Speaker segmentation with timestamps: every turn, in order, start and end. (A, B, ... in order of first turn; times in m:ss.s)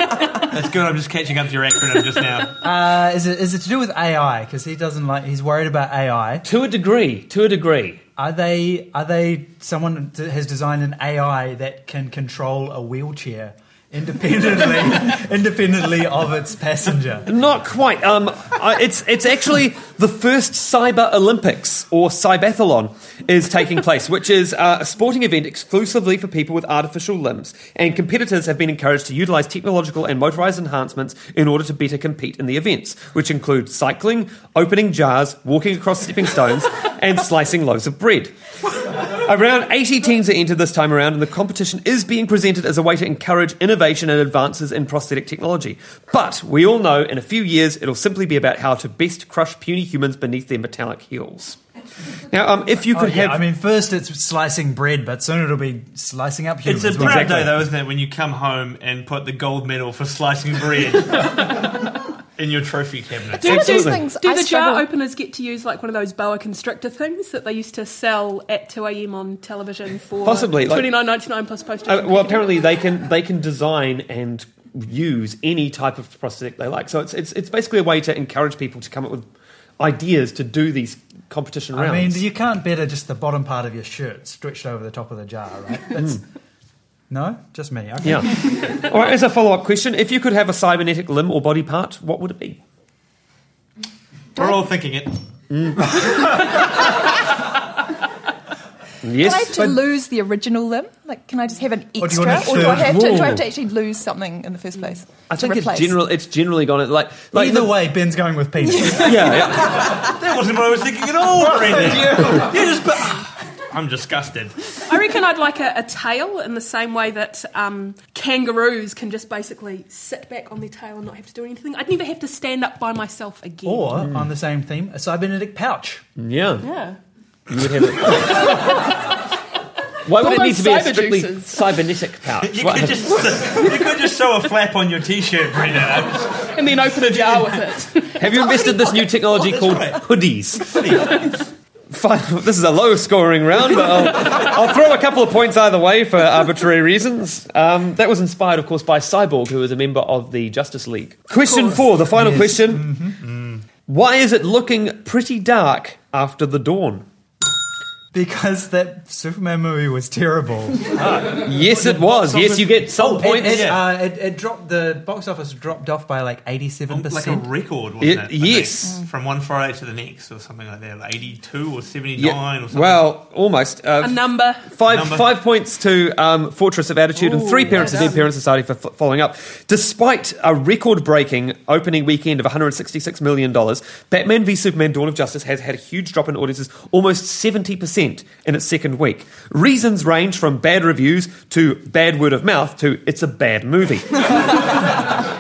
0:00.5-0:02.5 A
0:02.6-0:06.4 B
0:06.4-0:08.0 C
0:08.2-0:17.3 B
0:17.3-0:38.3 C
0:39.0-0:51.6 C
0:52.3-0:53.4 C
0:52.9-0:57.5 B
0:56.6-1:01.8 A
0:57.0-0:57.5 C
1:02.4-1:03.6 A
1:03.4-1:04.9 D
1:03.4-1:12.5 E
1:03.4-1:04.0 C
1:10.2-1:10.9 C
1:11.8-1:19.3 C
1:19.8-1:22.2 C
1:21.7-1:26.2 B
1:27.1-1:28.4 B
1:28.0-1:32.6 C
1:34.3-1:35.2 A
1:35.5-1:36.1 C
1:39.0-1:39.6 C
1:39.1-1:46.0 D
1:42.0-1:43.3 B
1:42.5-1:43.4 C
1:45.3-1:47.8 C
1:47.3-1:49.4 B
1:49.0-1:49.9 C
1:49.6-1:54.5 A
1:51.6-1:52.5 B
1:54.9-2:04.1 E
2:03.6-2:06.0 B
2:06.2-2:06.7 C
2:06.6-2:07.0 E
2:07.5-2:08.8 C
2:10.0-2:13.3 C
2:10.1-2:11.6 E
2:12.4-2:17.6 A
2:16.5-2:19.0 E
2:18.2-2:20.9 C
2:19.4-2:20.0 A
2:20.6-2:21.2 A
2:21.9-2:32.9 C
2:32.1-2:33.2 B
2:33.2-2:33.6 A
2:33.9-2:37.0 C
2:38.1-2:47.5 B
2:40.9-2:43.7 C
2:43.4-2:43.8 A
2:46.9-2:53.0 A
2:48.0-2:48.9 C
2:52.2-3:14.4 C
2:54.0-2:54.7 E
2:54.8-2:55.3 A
2:57.2-2:58.2 E